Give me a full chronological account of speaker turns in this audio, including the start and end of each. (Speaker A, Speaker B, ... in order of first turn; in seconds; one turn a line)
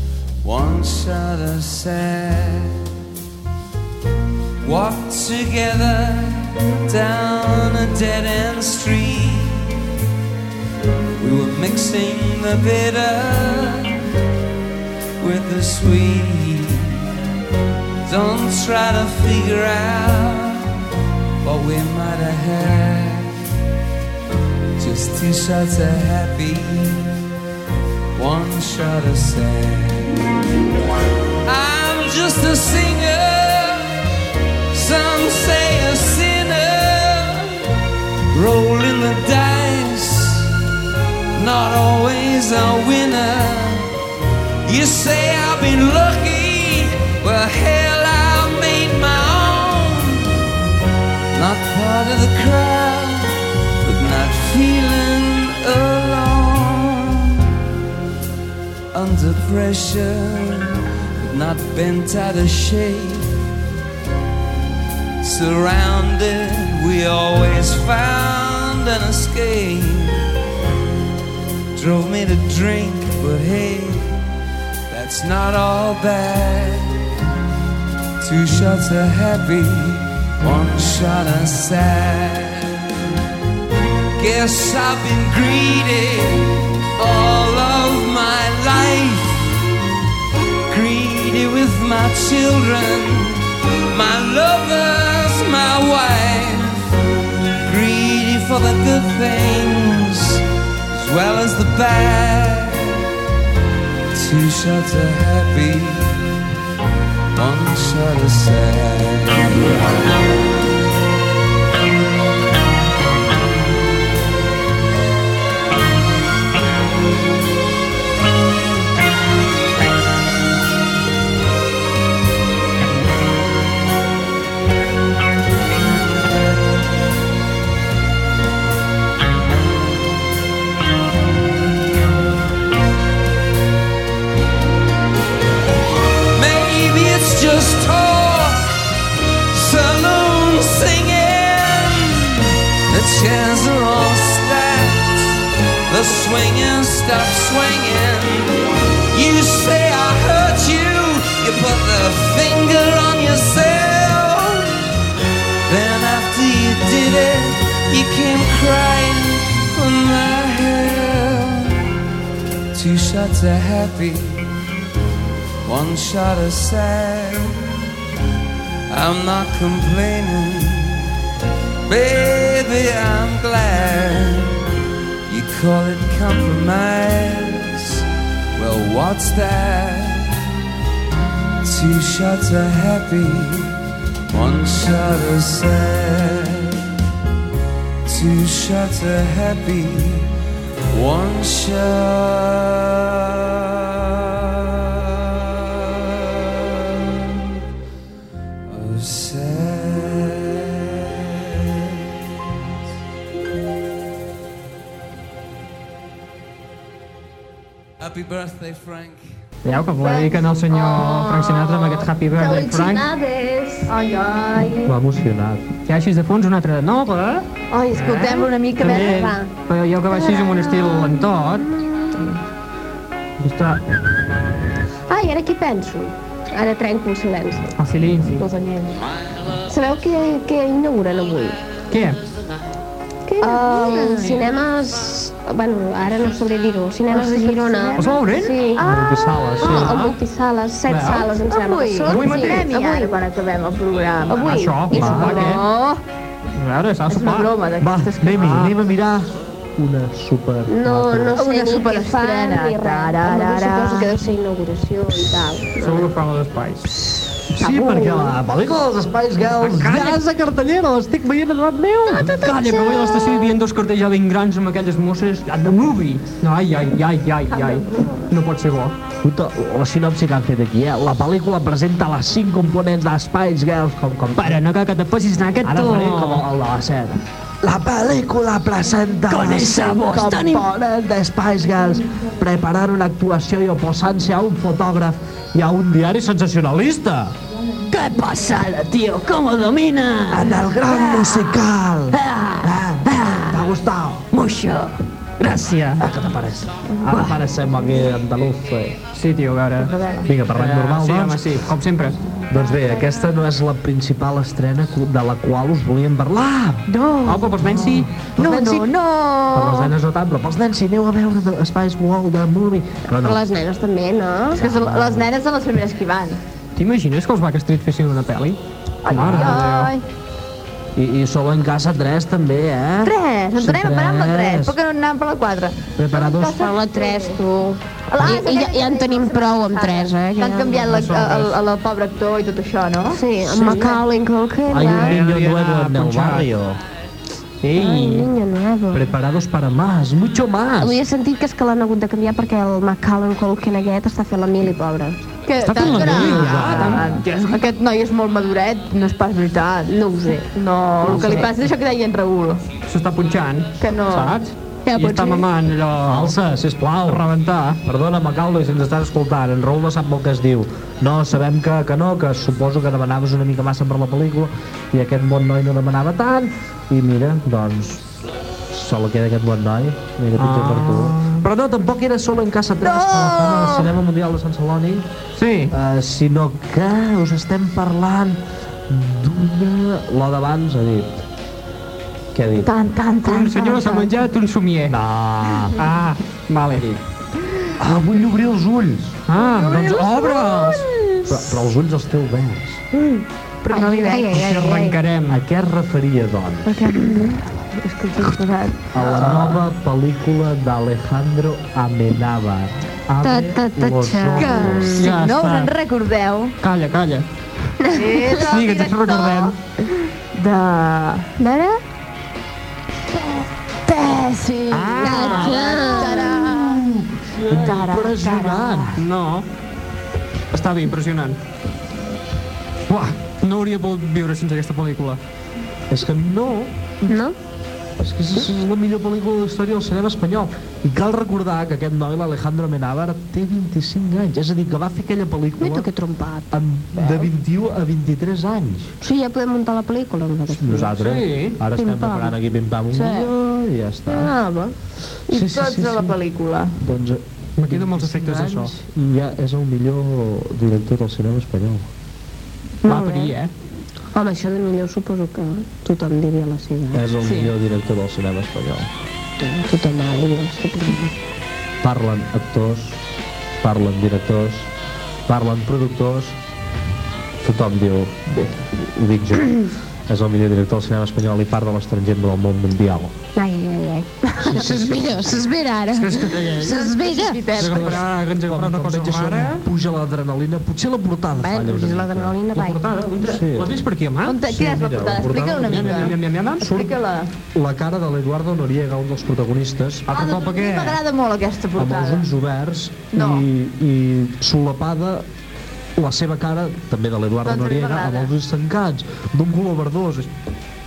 Speaker A: 0.4-2.9
Speaker A: 4.6-9.8
Speaker A: 11.2-14.0
Speaker A: 15.2-17.1
Speaker A: 18.1-20.8
Speaker A: 21.4-23.4
Speaker A: 24.8-27.2
Speaker A: 28.1-30.2
Speaker A: 31.4-34.0
Speaker A: 34.7-37.6
Speaker A: 38.3-40.5
Speaker A: 41.3-43.9
Speaker A: 44.6-50.3
Speaker A: 51.3-57.5
Speaker A: 58.9-63.4
Speaker A: 65.2-70.2
Speaker A: 71.7-74.2
Speaker A: 74.9-76.9
Speaker A: 78.2-82.9
Speaker A: 84.2-89.5
Speaker A: 90.7-96.9
Speaker A: 97.6-103.0
Speaker A: 104.1-106.3
Speaker A: 107.3-110.0
Speaker A: 136.3-138.7
Speaker A: 139.5-148.6
Speaker A: 149.1-154.8
Speaker A: 155.7-161.8
Speaker A: 162.7-164.5
Speaker A: 165.6-167.6
Speaker A: 168.9-171.1
Speaker A: 171.8-174.6
Speaker A: 175.3-178.0
Speaker A: 178.6-180.3
Speaker A: 181.6-183.8
Speaker A: 184.3-186.9
Speaker A: 188.0-190.3
Speaker A: 190.9-197.4
Speaker A: 198.7-202.0
Speaker A: 208.0-209.3
Speaker B: 209.6-213.1
Speaker C: 210.0-211.8
Speaker D: 210.7-213.9
Speaker C: 213.9-214.9
Speaker E: 214.8-215.6
Speaker B: 215.9-222.4
Speaker C: 217.7-219.3
Speaker D: 218.8-219.5
Speaker D: 220.1-222.2
Speaker B: 223.4-223.8
Speaker D: 225.1-227.7
Speaker B: 227.8-228.4
Speaker C: 228.4-229.0
Speaker D: 229.6-231.6
Speaker B: 231.9-232.2
Speaker D: 233.3-238.8
Speaker C: 233.4-234.3
Speaker C: 237.1-239.7
Speaker B: 238.0-238.6
Speaker E: 238.8-240.1
Speaker D: 239.6-243.2
Speaker B: 239.6-240.1
Speaker B: 240.9-241.2
Speaker C: 241.5-246.0
Speaker B: 242.1-242.7
Speaker D: 244.3-245.6
Speaker B: 244.3-245.6
Speaker E: 244.9-245.5
Speaker B: 246.6-247.5
Speaker C: 247.1-248.6
Speaker E: 247.8-251.4
Speaker B: 248.3-248.7
Speaker D: 250.7-256.1
Speaker C: 251.3-254.2
Speaker B: 255.8-256.9
Speaker E: 257.5-262.3
Speaker D: 257.6-258.4
Speaker B: 259.6-260.2
Speaker D: 262.1-263.6
Speaker B: 262.1-268.9
Speaker D: 267.5-268.3
Speaker E: 269.2-274.6
Speaker B: 274.4-276.4
Speaker E: 275.6-287.3
Speaker B: 279.3-280.0
Speaker D: 280.1-280.6
Speaker D: 287.9-289.2
Speaker D: 290.2-291.6
Speaker E: 290.3-294.3
Speaker B: 295.4-296.1
Speaker E: 296.0-299.0
Speaker D: 297.0-297.3
Speaker B: 299.1-299.9
Speaker C: 299.8-300.3
Speaker E: 300.2-301.6
Speaker B: 300.5-302.2
Speaker E: 302.5-306.8
Speaker C: 306.9-307.5
Speaker B: 307.2-308.1
Speaker E: 307.6-308.6
Speaker C: 308.4-309.9
Speaker E: 309.5-313.4
Speaker D: 313.1-314.6
Speaker C: 314.6-316.4
Speaker E: 314.6-315.3
Speaker B: 316.8-319.9
Speaker C: 319.0-320.0
Speaker E: 319.1-319.6
Speaker E: 320.9-324.8
Speaker C: 323.0-327.4
Speaker E: 326.0-326.6
Speaker D: 326.4-331.0
Speaker C: 328.1-333.2
Speaker B: 330.9-331.5
Speaker D: 333.1-335.2
Speaker B: 333.5-333.9
Speaker E: 334.7-336.8
Speaker B: 334.8-336.5
Speaker B: 337.6-338.3
Speaker D: 337.7-339.1
Speaker E: 338.9-341.0
Speaker D: 340.8-345.2
Speaker C: 345.4-349.9
Speaker B: 345.6-347.6
Speaker E: 345.7-347.2
Speaker D: 349.9-351.5
Speaker C: 350.5-352.6
Speaker B: 351.1-351.5
Speaker B: 352.9-356.4
Speaker C: 353.8-354.4
Speaker D: 354.9-355.5
Speaker E: 356.0-357.2
Speaker B: 357.1-357.8
Speaker E: 357.8-368.0
Speaker E: 368.7-375.1
Speaker B: 370.4-371.4
Speaker C: 372.8-373.9
Speaker B: 375.4-375.7
Speaker E: 375.7-381.1
Speaker E: 382.3-382.7
Speaker C: 382.6-384.1
Speaker B: 383.2-385.0
Speaker E: 384.9-385.8
Speaker B: 385.8-387.0
Speaker E: 387.8-389.2
Speaker B: 389.3-390.8
Speaker C: 389.4-391.3
Speaker E: 391.3-392.8
Speaker C: 393.6-394.3
Speaker D: 393.7-395.0
Speaker B: 393.7-395.4
Speaker E: 395.3-396.7
Speaker C: 396.6-398.9
Speaker E: 398.9-405.0
Speaker D: 403.2-405.1
Speaker C: 404.4-406.5
Speaker B: 404.9-405.7
Speaker B: 406.6-407.7
Speaker D: 407.8-408.2
Speaker C: 407.9-409.5
Speaker B: 408.3-409.6
Speaker C: 410.3-411.3
Speaker D: 411.4-411.8
Speaker C: 413.9-416.9
Speaker B: 414.7-415.9
Speaker D: 415.0-416.4
Speaker E: 416.3-419.0
Speaker C: 417.5-419.0
Speaker B: 419.0-419.5
Speaker B: 420.5-421.4
Speaker B: 422.9-425.2
Speaker E: 425.9-426.7
Speaker D: 427.1-427.4
Speaker E: 428.0-435.9
Speaker D: 435.6-437.3
Speaker E: 436.5-438.9
Speaker D: 439.0-441.0
Speaker E: 440.6-444.3
Speaker B: 441.0-441.6
Speaker D: 441.8-442.3
Speaker D: 442.9-443.3
Speaker D: 444.1-444.8
Speaker E: 445.3-446.2
Speaker C: 445.3-446.8
Speaker E: 446.8-451.9
Speaker B: 447.6-448.7
Speaker D: 452.8-453.3
Speaker B: 452.8-453.5
Speaker D: 454.1-457.1
Speaker E: 456.9-458.9
Speaker C: 457.2-457.5
Speaker D: 459.4-461.1
Speaker E: 461.8-463.0
Speaker E: 463.6-464.7
Speaker E: 465.3-466.4
Speaker E: 467.4-473.1
Speaker D: 473.3-477.7
Speaker E: 474.4-475.4
Speaker B: 475.9-476.9
Speaker C: 476.7-478.0
Speaker B: 477.5-479.7
Speaker E: 477.6-482.4
Speaker D: 481.3-482.9
Speaker B: 482.5-484.4
Speaker E: 483.2-483.7
Speaker C: 484.2-487.3
Speaker E: 484.4-486.9
Speaker B: 485.6-486.8
Speaker E: 487.5-490.1
Speaker B: 490.1-491.0
Speaker C: 490.1-492.3
Speaker E: 491.8-495.2
Speaker C: 493.1-493.4
Speaker E: 495.9-500.3
Speaker C: 497.4-498.3